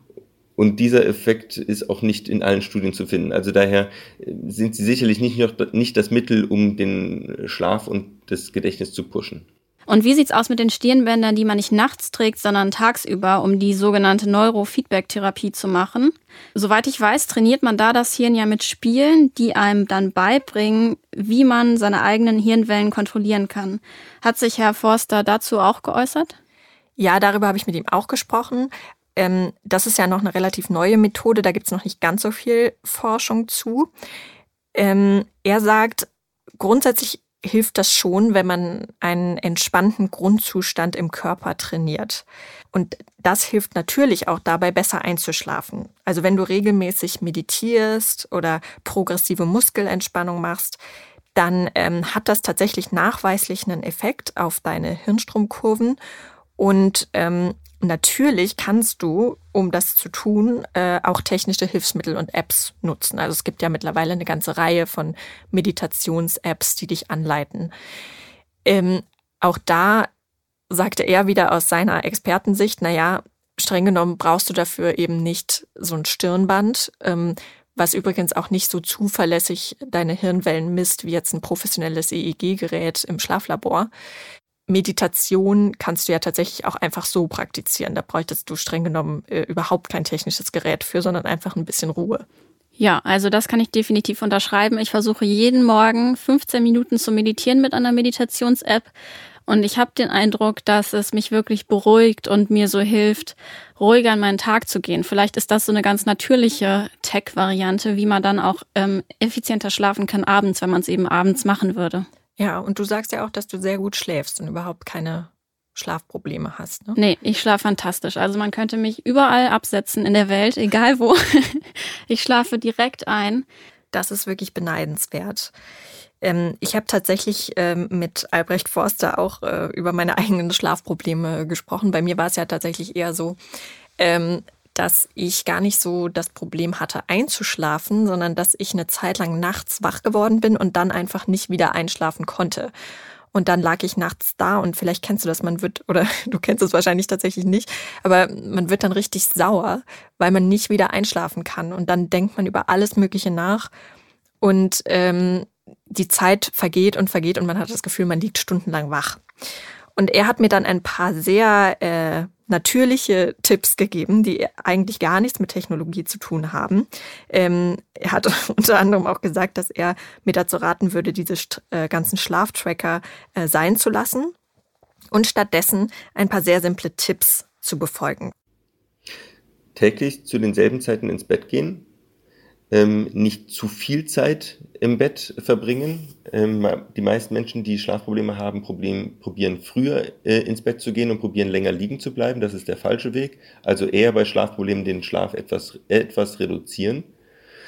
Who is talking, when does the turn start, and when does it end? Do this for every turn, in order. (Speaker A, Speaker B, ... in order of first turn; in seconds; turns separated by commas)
Speaker A: 0.6-9.4, Speaker B: 9.9-26.3, Speaker C: 27.0-33.9, Speaker C: 34.7-50.8, Speaker C: 51.3-56.0, Speaker C: 56.6-67.7, Speaker C: 68.6-70.1, Speaker C: 70.7-83.9, Speaker C: 84.7-92.2, Speaker B: 92.8-98.9, Speaker B: 99.5-112.0, Speaker C: 112.4-117.0, Speaker B: 117.0-123.5, Speaker C: 123.9-125.5, Speaker C: 126.2-133.4, Speaker C: 134.0-142.7, Speaker C: 143.3-153.7, Speaker C: 154.4-159.2, Speaker C: 159.9-174.3, Speaker C: 175.1-178.3, Speaker A: 179.7-181.9, Speaker A: 182.7-197.1